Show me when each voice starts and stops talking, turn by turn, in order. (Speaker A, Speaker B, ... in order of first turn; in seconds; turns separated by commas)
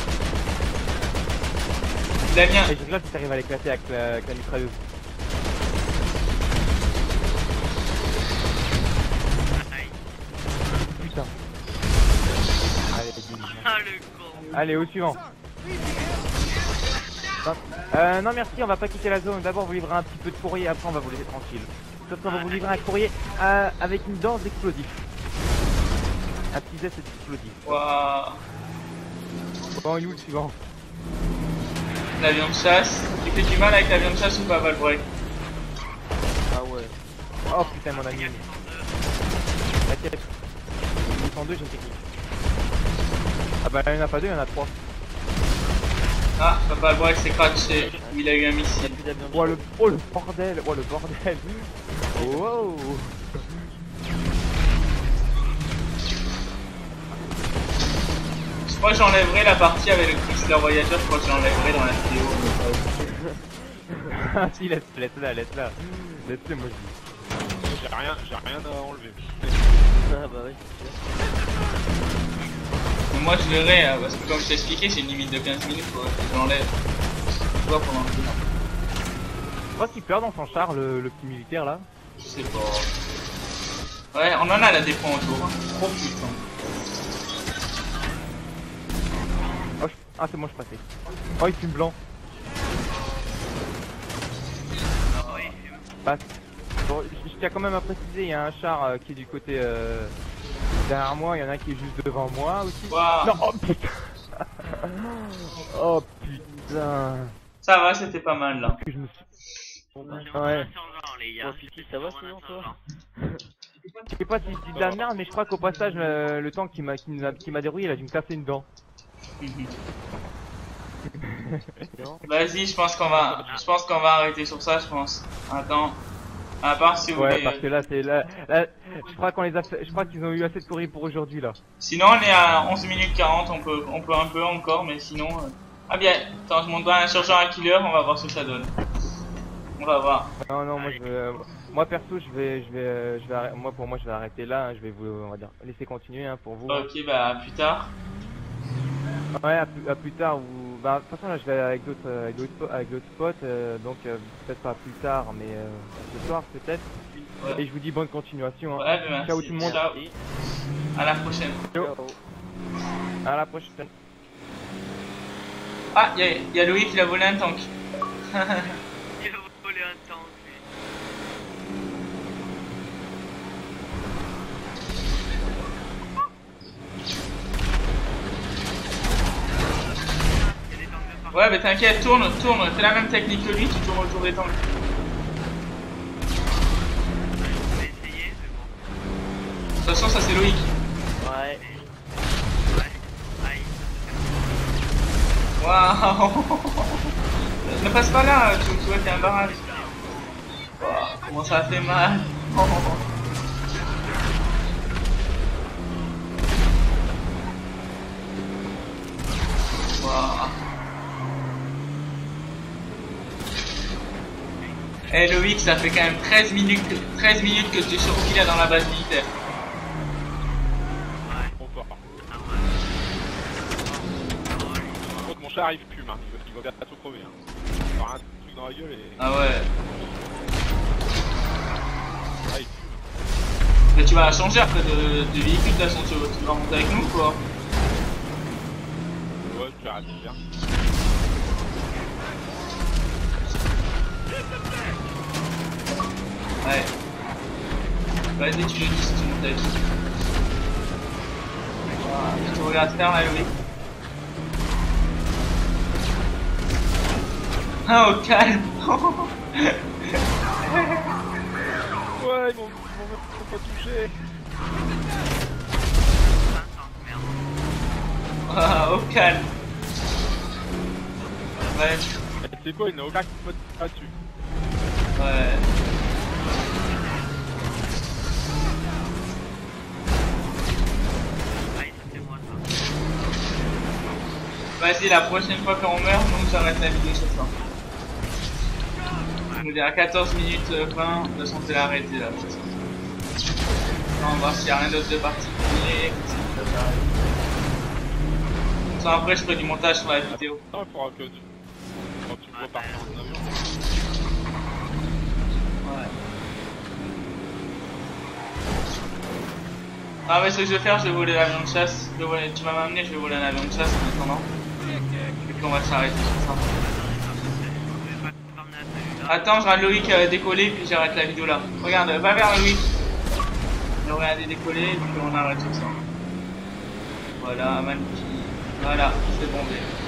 Speaker A: 2.3-2.8, Speaker B: 2.7-4.8, Speaker C: 9.5-10.0, Speaker B: 11.0-11.3, Speaker B: 12.9-13.7, Speaker C: 13.5-14.5, Speaker B: 14.5-15.2, Speaker B: 17.4-25.1, Speaker C: 22.2-22.8, Speaker B: 26.5-27.8, Speaker A: 27.6-28.4, Speaker B: 29.8-30.6, Speaker A: 32.2-35.1, Speaker D: 36.5-37.0, Speaker B: 37.5-38.5, Speaker C: 37.5-38.9, Speaker B: 39.9-40.3, Speaker B: 41.0-42.0, Speaker B: 43.6-44.8, Speaker A: 46.4-49.0, Speaker D: 47.6-49.7, Speaker B: 49.3-53.7, Speaker D: 52.1-52.6, Speaker A: 58.6-62.9, Speaker D: 63.0-64.1, Speaker B: 64.1-67.0, Speaker E: 67.6-69.7, Speaker D: 70.0-71.0, Speaker A: 73.1-76.7, Speaker A: 77.5-78.4, Speaker B: 79.8-81.9, Speaker A: 82.2-82.9, Speaker A: 84.1-86.4, Speaker C: 88.0-88.3, Speaker B: 89.8-90.9, Speaker B: 91.4-92.0, Speaker C: 95.1-95.9, Speaker A: 95.1-95.5, Speaker B: 96.8-100.1, Speaker B: 100.8-107.4, Speaker A: 102.9-103.4, Speaker A: 107.6-108.8, Speaker B: 108.7-109.2, Speaker C: 110.0-112.8, Speaker B: 110.2-110.7, Speaker D: 111.4-113.4, Speaker B: 114.1-118.7, Speaker E: 114.7-115.1, Speaker A: 119.4-119.7, Speaker B: 121.2-121.8, Speaker D: 121.9-122.2, Speaker A: 122.2-126.0, Speaker E: 123.0-123.6, Speaker A: 126.6-127.6, Speaker B: 127.1-131.6, Speaker A: 131.8-138.7, Speaker C: 137.2-137.7, Speaker A: 139.8-140.3, Speaker B: 140.4-146.9, Speaker C: 140.8-141.1, Speaker A: 146.7-147.9, Speaker B: 149.4-156.9, Speaker B: 157.5-159.8, Speaker A: 158.8-160.0, Speaker D: 159.6-160.2, Speaker A: 161.0-161.7, Speaker D: 161.8-162.2, Speaker B: 163.2-163.9, Speaker A: 165.9-167.7, Speaker A: 168.3-168.7, Speaker C: 169.2-170.6, Speaker C: 180.3-181.5, Speaker A: 181.3-184.6, Speaker C: 187.3-188.8, Speaker A: 189.8-190.7, Speaker D: 191.2-191.6, Speaker C: 191.6-191.9, Speaker C: 192.7-194.4, Speaker A: 195.6-197.1, Speaker A: 197.6-199.7, Speaker C: 199.2-200.2, Speaker A: 200.8-203.0, Speaker A: 210.0-210.6, Speaker C: 214.6-215.3, Speaker A: 215.1-219.3, Speaker C: 221.2-221.5, Speaker E: 221.6-222.0, Speaker C: 222.3-222.7, Speaker C: 223.8-225.3, Speaker E: 225.0-227.4, Speaker E: 227.9-229.4, Speaker A: 229.2-229.7, Speaker E: 232.4-233.1, Speaker A: 233.9-237.4, Speaker E: 239.4-240.4, Speaker A: 246.6-246.9, Speaker A: 248.4-249.8, Speaker C: 251.9-252.7, Speaker A: 252.0-253.5, Speaker A: 257.9-259.8, Speaker A: 260.7-261.1, Speaker E: 262.1-264.1, Speaker C: 266.2-267.4, Speaker A: 268.5-269.5, Speaker A: 271.6-272.1, Speaker E: 272.4-274.1, Speaker A: 275.1-275.6, Speaker C: 276.4-277.2, Speaker C: 281.6-282.7, Speaker A: 284.8-287.5, Speaker C: 289.4-289.7, Speaker A: 289.6-292.7, Speaker A: 294.2-297.1, Speaker A: 298.9-300.6, Speaker E: 300.3-301.5, Speaker E: 302.2-303.7, Speaker C: 302.5-303.3, Speaker A: 305.8-306.1, Speaker A: 310.2-314.5, Speaker A: 315.4-316.7, Speaker C: 316.8-319.5, Speaker A: 319.3-322.9, Speaker A: 324.0-326.0, Speaker A: 327.4-329.9